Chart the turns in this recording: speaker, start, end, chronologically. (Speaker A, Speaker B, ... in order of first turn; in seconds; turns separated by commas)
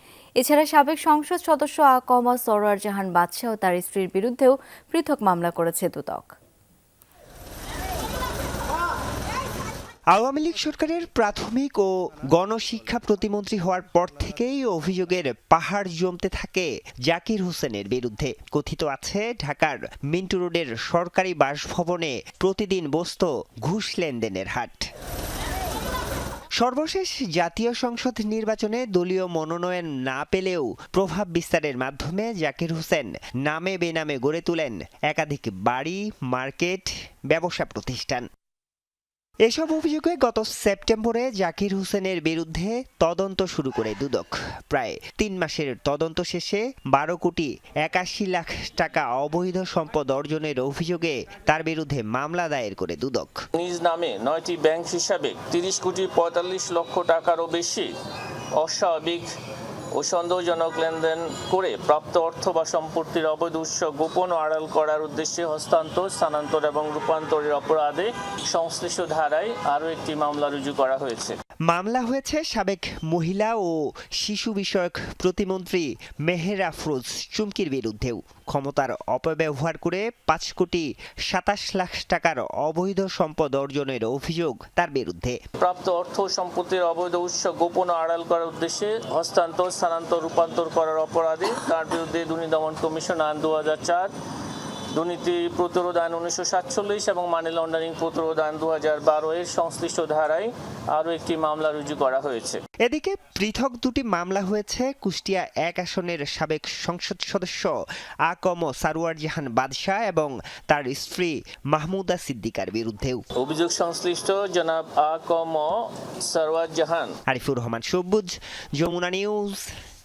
Speaker A: 0.4-6.3, Speaker B: 10.1-24.9, Speaker B: 26.6-38.2, Speaker B: 39.5-53.4, Speaker C: 53.5-57.9, Speaker C: 58.6-59.3, Speaker C: 60.0-71.3, Speaker B: 71.7-85.4, Speaker C: 85.6-94.1, Speaker C: 94.9-102.6, Speaker B: 102.8-107.7, Speaker B: 108.3-113.2, Speaker C: 113.4-117.1, Speaker B: 117.3-119.7